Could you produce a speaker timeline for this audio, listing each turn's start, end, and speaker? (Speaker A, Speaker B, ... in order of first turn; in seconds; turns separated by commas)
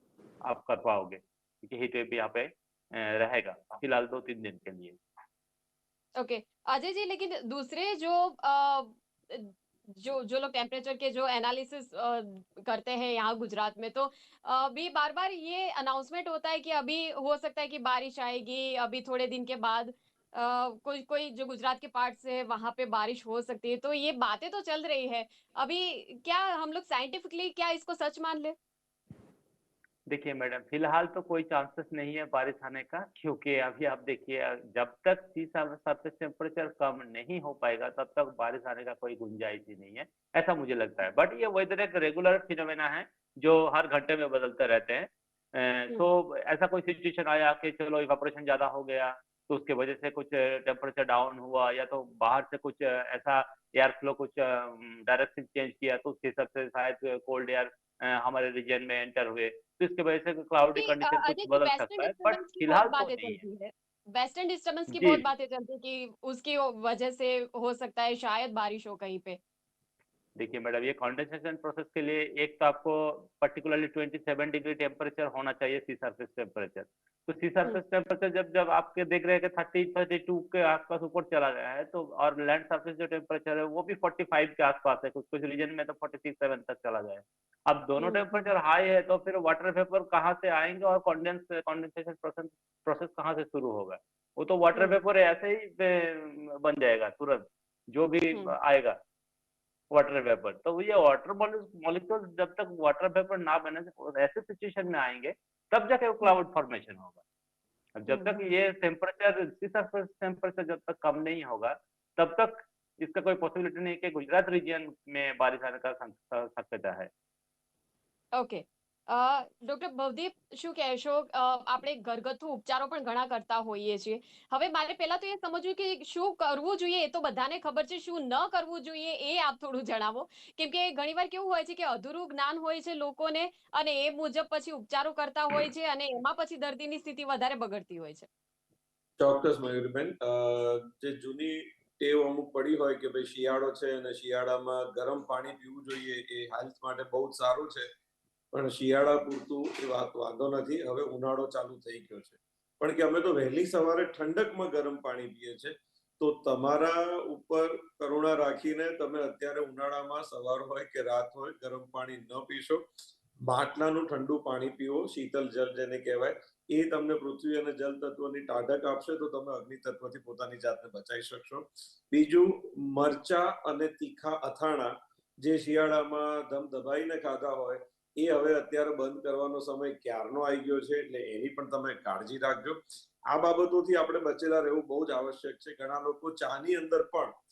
Speaker A: 0.4-5.0, Speaker B: 6.2-28.5, Speaker A: 30.1-63.4, Speaker B: 60.8-69.4, Speaker A: 64.9-65.2, Speaker A: 70.3-99.0, Speaker B: 88.0-88.5, Speaker A: 99.9-107.2, Speaker A: 108.0-117.1, Speaker B: 108.1-108.5, Speaker B: 118.3-138.3, Speaker C: 139.2-147.9, Speaker C: 148.5-162.9, Speaker C: 163.4-187.3